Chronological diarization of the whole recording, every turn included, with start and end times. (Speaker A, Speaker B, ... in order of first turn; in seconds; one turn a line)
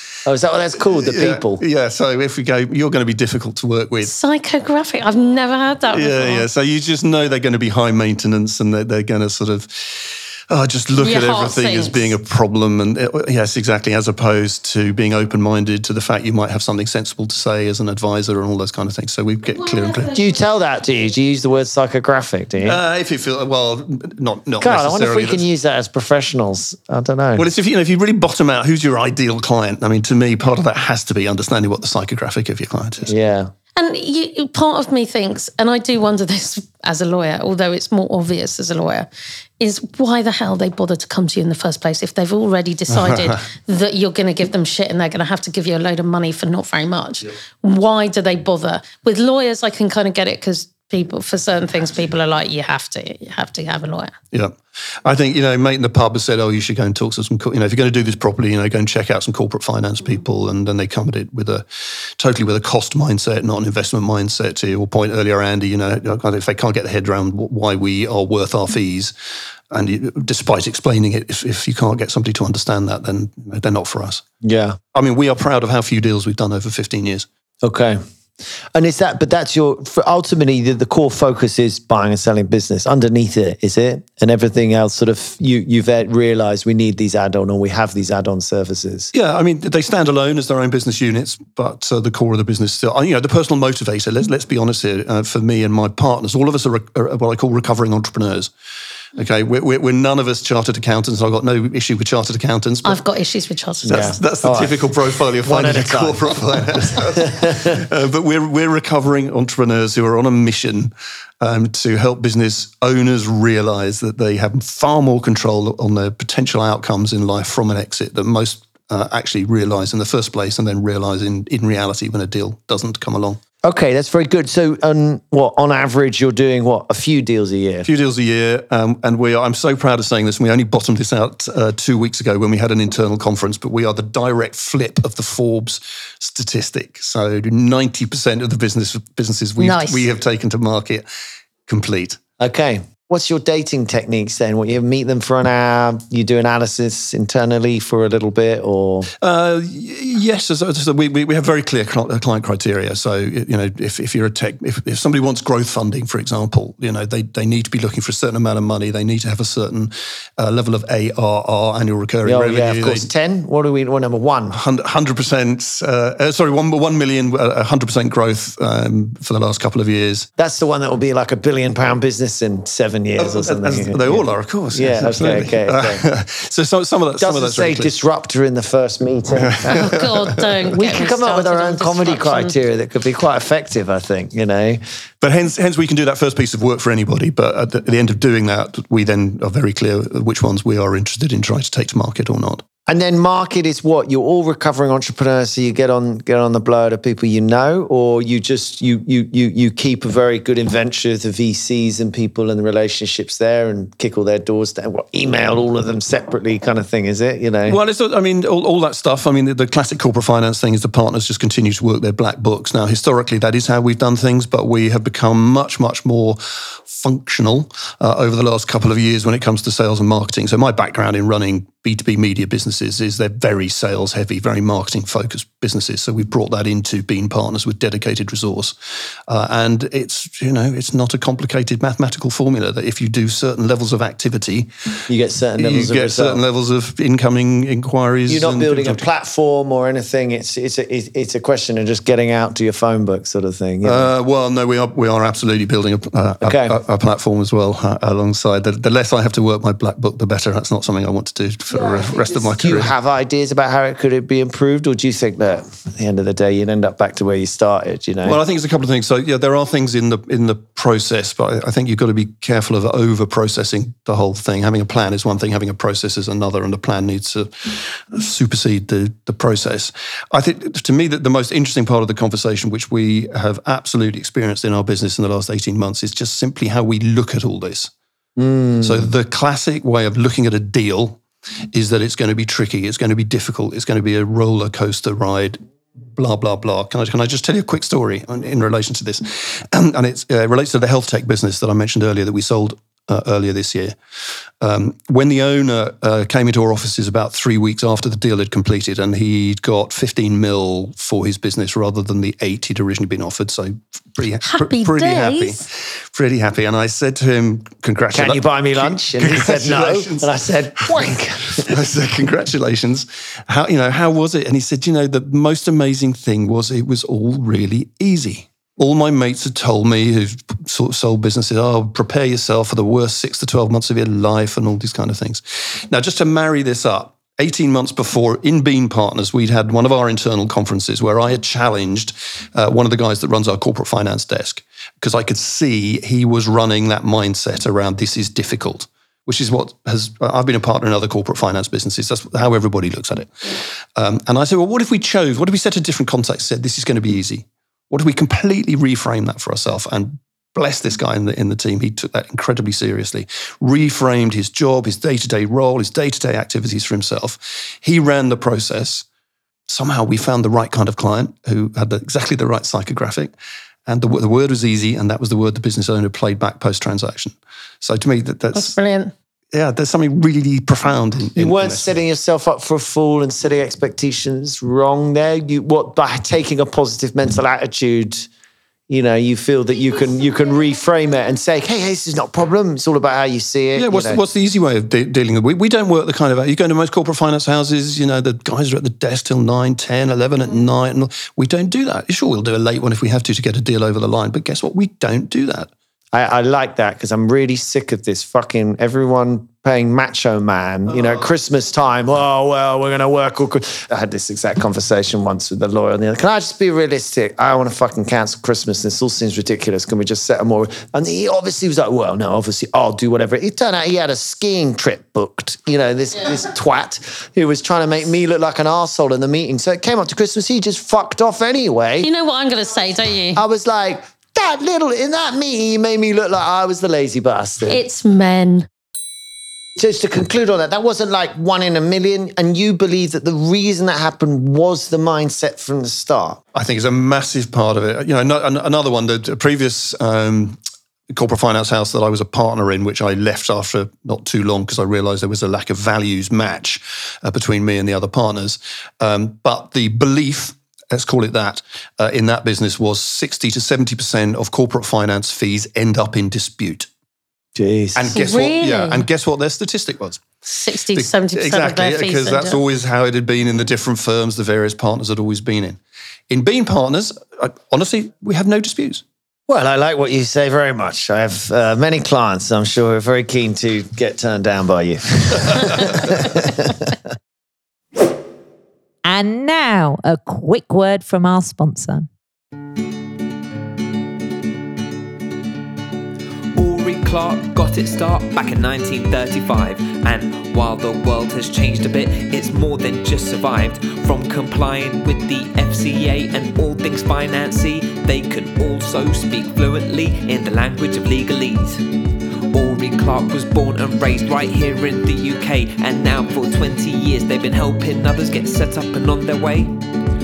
Speaker A: 0.2-1.6
Speaker B: 0.9-4.1
Speaker C: 4.0-6.5
Speaker B: 5.9-20.1
Speaker C: 10.9-12.1
Speaker C: 19.6-20.1
Speaker A: 20.1-22.8
Speaker B: 22.6-25.4
Speaker A: 24.6-27.4
Speaker B: 27.4-33.1
Speaker A: 33.1-33.5
Speaker C: 33.8-39.1
Speaker C: 39.6-54.1
Speaker B: 42.9-43.4
Speaker B: 54.3-69.1
Speaker B: 69.7-74.2
Speaker A: 74.4-74.8
Speaker B: 74.9-77.3
Speaker A: 77.6-78.0
Speaker A: 78.8-89.1
Speaker B: 89.1-98.5
Speaker B: 99.2-103.0
Speaker C: 102.8-104.2
Speaker A: 103.8-104.9
Speaker B: 103.9-123.4
Speaker A: 105.4-107.8
Speaker A: 123.6-127.9
Speaker B: 127.9-141.0
Speaker C: 139.6-140.1
Speaker B: 141.7-142.2
Speaker A: 142.4-149.1
Speaker B: 149.2-163.1
Speaker A: 162.2-164.6
Speaker B: 164.5-170.3
Speaker A: 170.4-176.0
Speaker B: 173.2-177.9
Speaker A: 177.2-179.9
Speaker B: 179.4-180.7
Speaker C: 179.7-182.6
Speaker A: 180.7-184.8
Speaker B: 185.2-192.6
Speaker A: 192.9-207.8
Speaker B: 207.7-228.8
Speaker B: 229.3-235.0
Speaker A: 235.1-236.4
Speaker B: 235.6-239.0
Speaker A: 238.3-244.1
Speaker B: 243.8-252.9
Speaker A: 246.4-246.8
Speaker A: 251.7-258.4
Speaker B: 258.2-277.9
Speaker A: 278.4-279.1
Speaker B: 278.8-281.2
Speaker B: 281.7-285.6
Speaker B: 286.1-294.0
Speaker B: 294.6-359.0
Speaker C: 304.4-305.6
Speaker A: 308.1-311.8
Speaker B: 359.7-363.3
Speaker B: 363.9-368.8
Speaker C: 368.5-369.1
Speaker B: 369.5-371.9
Speaker A: 371.4-378.3
Speaker A: 378.9-384.2
Speaker B: 383.8-395.7
Speaker A: 396.1-422.1
Speaker C: 422.0-423.4
Speaker A: 423.4-427.8
Speaker C: 427.7-428.7
Speaker A: 429.8-436.4
Speaker B: 436.5-440.6
Speaker B: 441.1-456.9
Speaker A: 457.6-458.1
Speaker B: 457.9-460.4
Speaker C: 458.1-459.1
Speaker C: 460.4-462.6
Speaker B: 460.9-465.8
Speaker B: 466.3-469.0
Speaker A: 469.5-476.9
Speaker D: 479.0-482.1
Speaker E: 486.5-501.9
Speaker E: 502.5-509.8